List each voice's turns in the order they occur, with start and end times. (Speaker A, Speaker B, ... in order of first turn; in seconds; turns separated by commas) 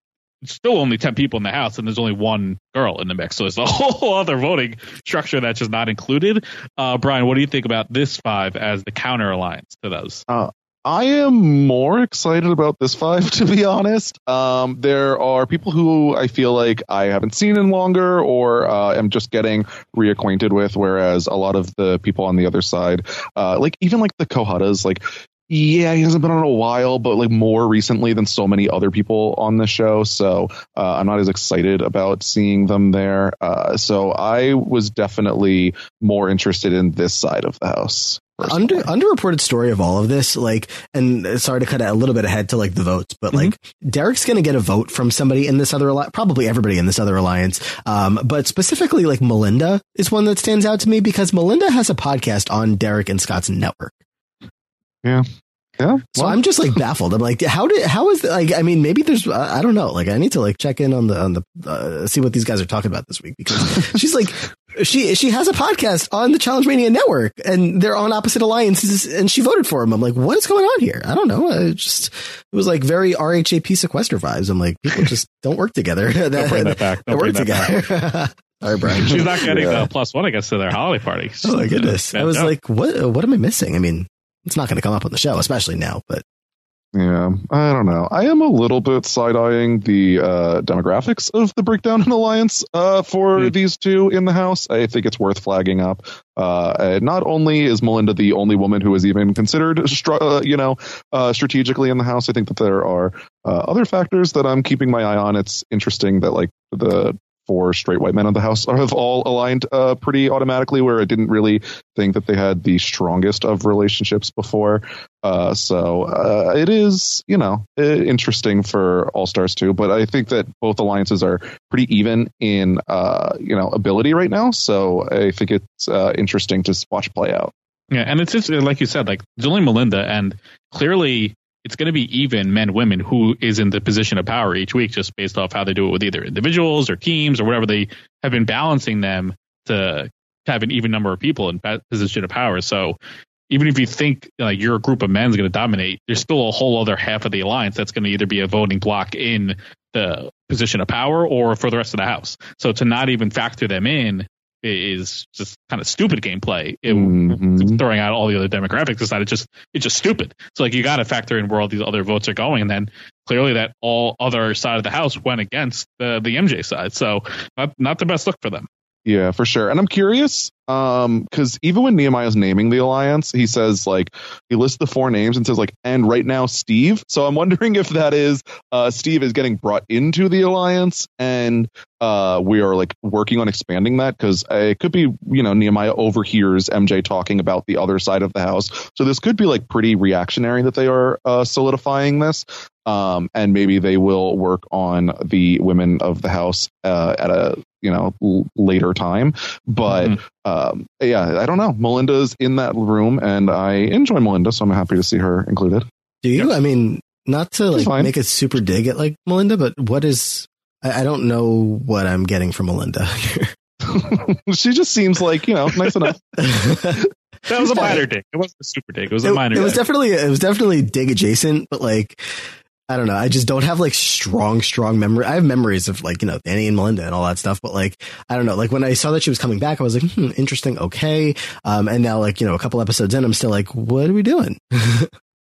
Speaker A: 0.4-10.2, Speaker B: 10.3-38.9, Speaker C: 38.4-53.9, Speaker B: 55.8-56.4, Speaker C: 56.2-79.4, Speaker A: 76.3-77.8, Speaker B: 79.0-79.9, Speaker A: 79.1-82.5, Speaker C: 81.4-86.2, Speaker B: 86.9-127.5, Speaker A: 127.9-143.0, Speaker A: 143.5-168.7, Speaker B: 156.9-157.8, Speaker B: 169.1-205.9, Speaker A: 199.9-200.2, Speaker C: 206.2-213.5, Speaker B: 207.7-208.1, Speaker B: 213.8-216.5, Speaker C: 216.4-217.0, Speaker A: 217.5-219.8, Speaker C: 217.6-218.0, Speaker C: 219.2-222.2, Speaker C: 222.9-235.1